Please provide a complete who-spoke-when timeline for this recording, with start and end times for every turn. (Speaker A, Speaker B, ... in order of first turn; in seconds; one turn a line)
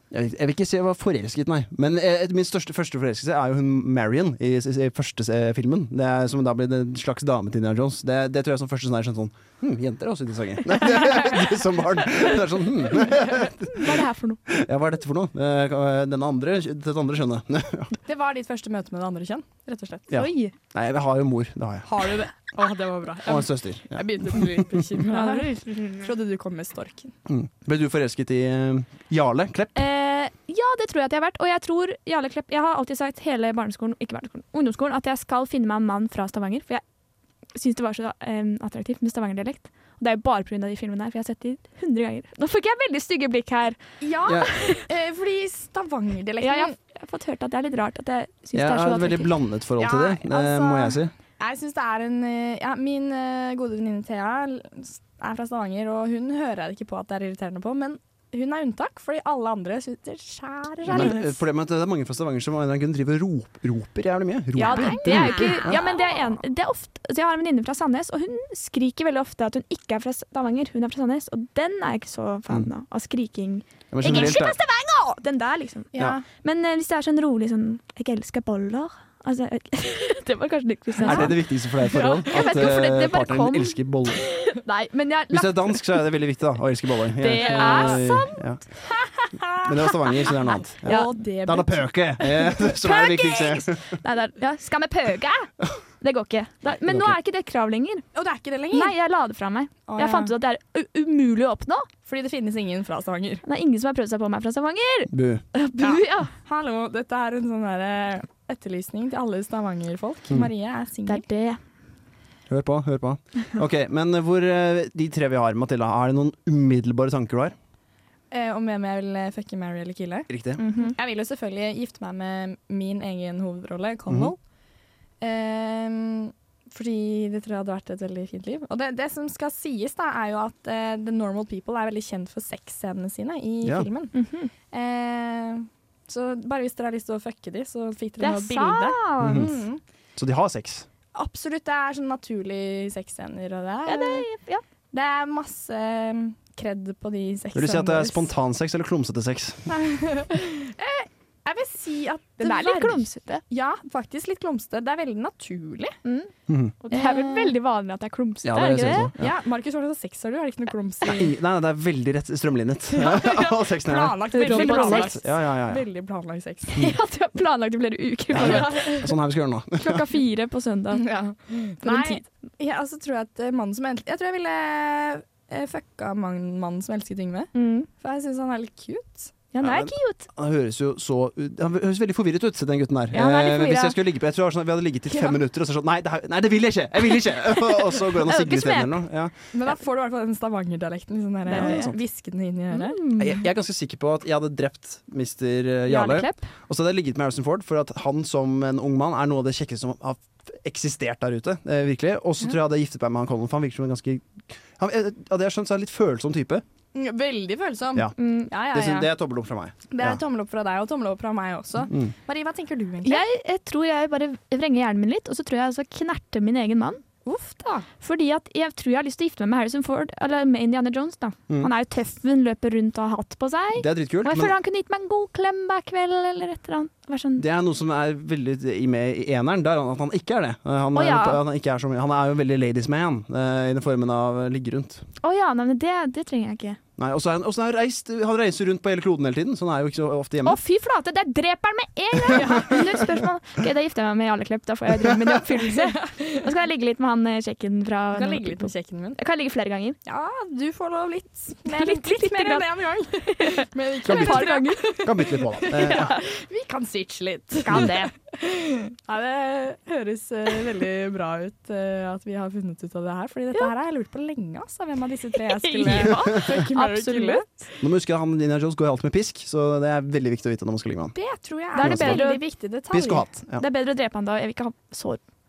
Speaker A: 0.1-17.9
Speaker B: 13.1-14.4
Speaker C: 18.1-20.1
Speaker A: 20.1-21.9
Speaker B: 20.1-20.5
Speaker C: 21.9-27.1
Speaker A: 23.2-24.6
Speaker B: 25.1-26.1
Speaker A: 27.3-29.8
Speaker B: 29.8-36.8
Speaker B: 37.5-43.8
Speaker C: 44.0-46.7
Speaker B: 44.3-44.9
Speaker B: 46.4-49.3
Speaker A: 48.5-51.1
Speaker C: 49.8-61.4
Speaker A: 60.9-65.8
Speaker C: 64.6-66.4
Speaker B: 64.6-83.8
Speaker A: 73.9-74.6
Speaker C: 75.9-76.2
Speaker C: 81.0-81.3
Speaker A: 81.0-84.3
Speaker B: 84.5-86.0
Speaker A: 85.3-88.6
Speaker B: 87.2-88.4
Speaker C: 87.4-88.1
Speaker C: 89.2-89.7
Speaker A: 89.5-94.0
Speaker B: 90.8-91.1
Speaker C: 90.8-91.8
Speaker B: 92.6-98.0
Speaker A: 96.7-97.2
Speaker C: 98.1-98.9
Speaker B: 98.7-101.9
Speaker C: 99.9-100.3
Speaker C: 102.0-103.4
Speaker B: 103.4-106.3
Speaker A: 105.1-105.4
Speaker C: 105.8-111.2
Speaker B: 111.0-111.6
Speaker A: 112.5-117.5
Speaker C: 118.3-124.4
Speaker A: 120.3-120.6
Speaker B: 120.6-120.9
Speaker A: 124.1-124.3
Speaker C: 125.2-134.1
Speaker B: 134.1-134.5
Speaker C: 134.7-139.8
Speaker B: 138.2-139.6
Speaker A: 139.2-139.5
Speaker A: 140.2-140.9
Speaker C: 141.1-144.2
Speaker B: 143.8-144.6
Speaker C: 144.9-148.3
Speaker A: 147.5-149.7
Speaker C: 149.7-156.0
Speaker B: 152.4-153.4
Speaker B: 156.0-159.1
Speaker A: 156.5-156.7
Speaker C: 156.9-157.5
Speaker A: 158.4-159.3
Speaker C: 159.2-161.3
Speaker A: 161.0-165.8
Speaker C: 162.9-166.8
Speaker B: 164.3-165.2
Speaker B: 166.8-169.1
Speaker A: 168.3-170.1
Speaker C: 168.3-169.1
Speaker B: 169.8-171.1
Speaker C: 170.9-179.3
Speaker B: 171.8-172.2
Speaker B: 177.5-177.9
Speaker B: 179.5-180.2
Speaker A: 179.6-189.3
Speaker B: 183.1-184.0
Speaker B: 187.7-189.0
Speaker C: 189.5-193.0
Speaker B: 191.5-191.9
Speaker A: 191.5-191.9
Speaker B: 192.7-193.4
Speaker A: 193.2-206.6
Speaker B: 195.9-196.4
Speaker C: 206.9-209.1
Speaker A: 207.9-210.2
Speaker B: 208.2-208.5
Speaker C: 209.9-213.2
Speaker B: 213.0-217.0
Speaker C: 217.2-217.9
Speaker B: 218.0-227.4
Speaker A: 223.8-224.5
Speaker A: 227.4-235.0
Speaker B: 230.9-231.4
Speaker B: 235.2-236.8
Speaker A: 237.0-240.6
Speaker B: 240.4-250.0
Speaker C: 242.3-243.1
Speaker C: 245.6-246.4
Speaker C: 248.1-249.2
Speaker C: 250.1-267.6
Speaker B: 251.7-252.6
Speaker B: 253.2-254.9
Speaker A: 254.1-256.1
Speaker B: 255.7-256.2
Speaker B: 257.6-258.1
Speaker B: 265.4-267.4
Speaker A: 267.8-271.1
Speaker C: 271.1-273.3
Speaker B: 271.7-272.4
Speaker A: 271.8-272.2
Speaker A: 272.9-273.6
Speaker B: 273.6-275.2